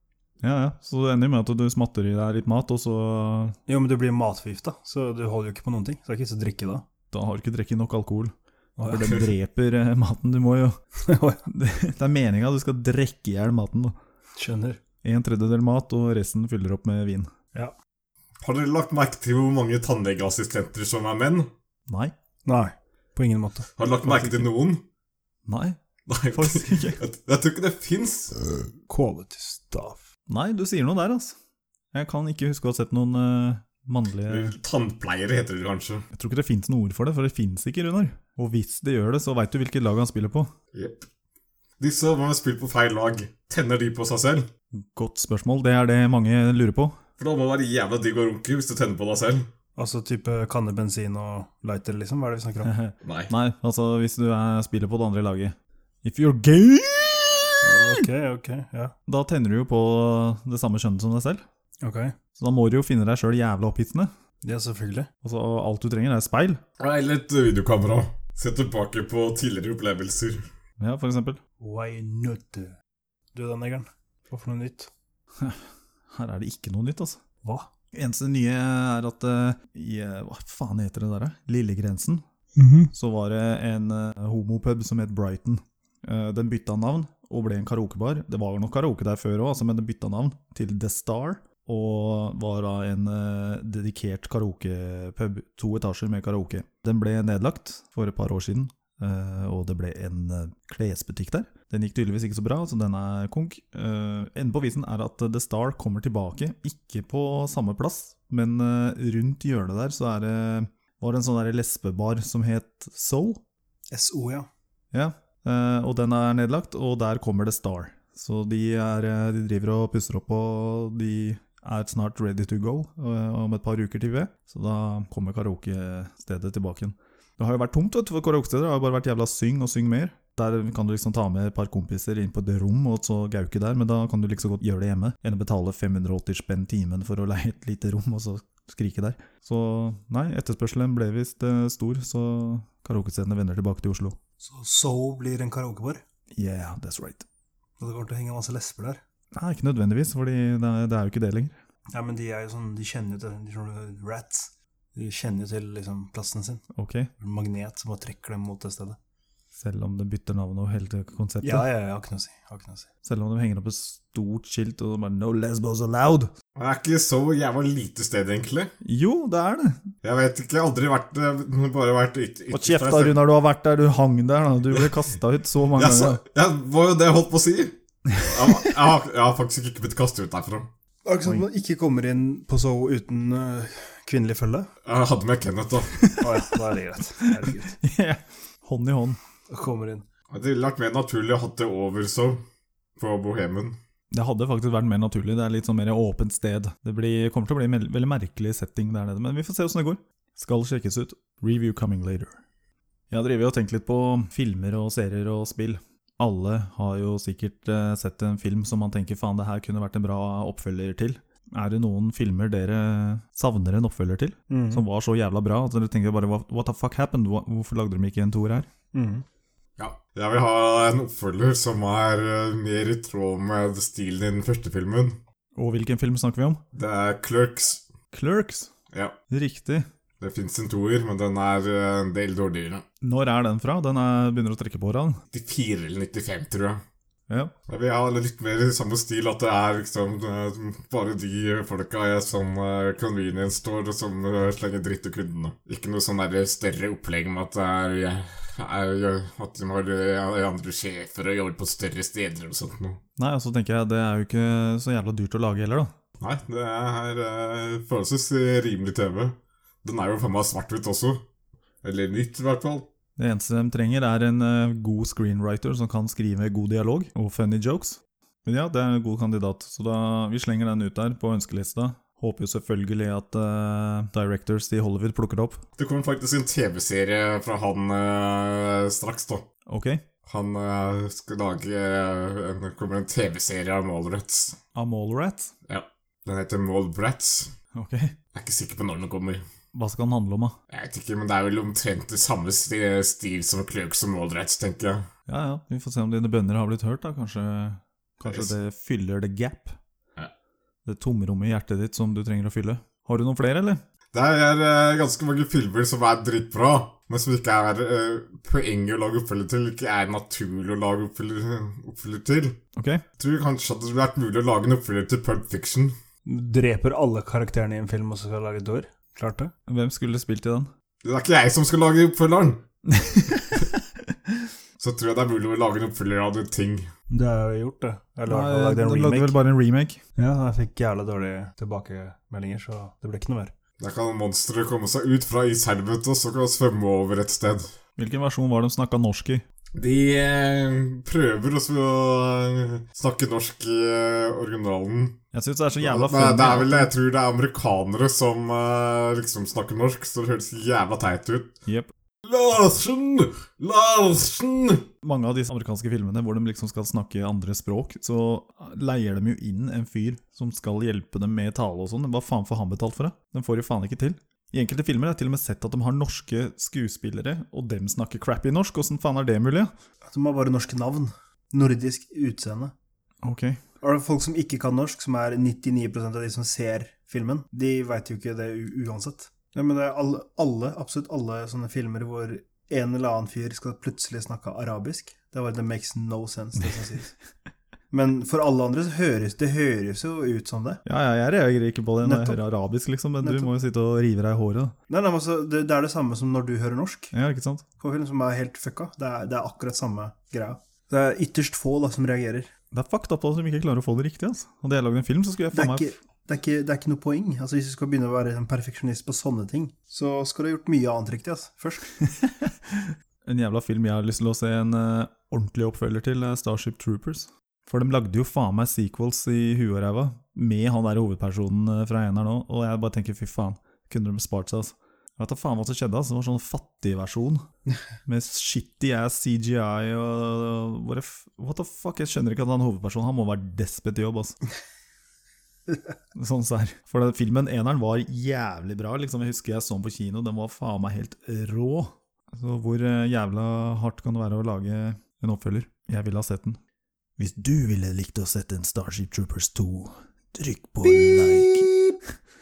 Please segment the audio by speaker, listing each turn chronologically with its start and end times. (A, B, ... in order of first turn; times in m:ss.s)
0:00.4-0:03.6 A
0:03.7-0:06.8 B
0:07.1-0:10.8 A
0:08.8-0:09.2 B
0:11.0-0:11.4 B
0:11.5-0:14.0 A
0:14.4-0:14.8 B
0:15.0-0:17.3 A
0:18.4-0:21.5 C
0:21.9-0:22.1 A
0:22.4-0:23.7 B
0:23.8-0:24.8 C
0:24.0-0:24.4 A
0:25.5-0:25.8 A
0:26.1-0:28.4 C
0:26.3-0:27.0 A
0:28.9-0:30.0 B
0:30.3-0:31.4 A
0:31.9-0:34.5 A
0:34.3-0:36.0 C
0:36.1-0:40.5 A
0:40.7-0:41.0 C
0:41.8-0:44.5 C
0:44.8-0:47.0 A
0:47.2-0:49.5 C
0:49.8-0:52.7 B
0:52.6-0:58.0 A
0:53.0-0:53.3 C
0:57.6-0:58.9 B
0:59.1-1:01.4 A
1:01.8-1:02.1 B
1:02.4-1:04.1 A
1:04.4-1:05.1 B
1:05.2-1:06.6 A
1:06.8-1:10.5 C
1:10.8-1:11.4 A
1:11.6-1:12.8 B
1:13.3-1:14.9 B
1:15.4-1:17.2 A
1:17.4-1:17.7 B
1:17.9-1:22.2 A
1:22.5-1:22.9 B
1:22.9-1:53.4 A
1:53.9-1:54.5 B
1:54.9-2:24.2 A
2:24.4-2:26.0 B
2:26.3-2:27.2 A
2:27.8-2:29.0 B
2:29.3-2:31.5 A
2:31.9-2:36.6 B
2:36.8-2:37.1 A
2:37.2-2:39.0 B
2:39.6-2:41.7 A
2:41.4-2:42.9 B
2:43.0-2:46.3 A
2:46.6-2:48.7 C
2:48.8-2:49.8 A
2:50.0-2:53.2 C
2:52.5-2:56.2 A
2:55.7-3:00.7 C
2:58.1-2:58.6 A
3:01.0-3:04.7 B
3:04.8-3:06.0 C
3:06.0-3:06.3 A
3:06.2-3:07.8 B
3:07.2-3:09.2 A
3:09.5-3:10.0 B
3:10.3-3:12.4 C
3:13.0-3:13.8 C
3:14.1-3:22.4 A
3:23.1-3:38.7 A
3:34.5-3:34.8 B
3:38.9-3:39.2 B
3:39.8-3:45.2 C
3:45.6-3:46.6 A
3:46.7-3:47.8 C
3:48.1-3:48.7 A
3:49.3-3:49.9 A
3:50.2-3:52.8 C
3:53.0-3:55.2 A
3:55.3-3:56.8 C
3:57.7-4:13.0 C
4:13.2-4:15.9 A
4:16.2-4:21.2 C
4:21.8-4:22.9 C
4:23.2-4:35.6 A
4:35.8-4:39.5 C
4:39.7-4:40.0 A
4:40.2-4:44.6 C
4:44.8-4:45.5 A
4:45.7-4:47.5 C
4:47.7-4:48.1 A
4:48.3-4:49.4 C
4:49.7-4:50.6 A
4:50.7-4:55.1 C
4:55.3-4:59.8 A
4:58.2-4:58.5 C
5:00.8-5:03.8 A
5:04.1-5:12.6 C
5:12.8-5:13.0 A
5:13.2-5:16.0 C
5:16.2-5:19.5 B
5:19.7-5:20.7 A
5:21.0-5:22.6 C
5:22.9-5:24.4 A
5:24.8-5:26.9 C
5:27.1-5:29.4 B
5:28.3-5:30.0 A
5:30.2-5:33.5 B
5:33.8-5:37.7 C
5:38.0-5:39.4 A
5:39.8-5:45.2 C
5:45.3-5:46.9 A
5:45.8-5:51.5 C
5:51.7-5:51.9 A
5:52.2-5:54.8 C
5:55.0-6:09.7 A
6:10.1-6:12.7 B
6:13.2-6:13.6 A
6:13.8-6:27.1 B
6:27.9-6:30.8 B
6:30.8-6:34.8 A
6:32.0-6:32.4 B
6:33.2-6:33.5 B
6:34.9-6:37.1 B
6:37.1-6:37.6 A
6:37.8-6:42.5 B
6:42.7-6:45.9 A
6:45.5-6:51.8 B
6:52.0-7:07.5 A
7:08.0-7:14.4 A
7:16.2-7:26.6 A
7:27.2-7:31.8 A
7:30.8-7:32.0 B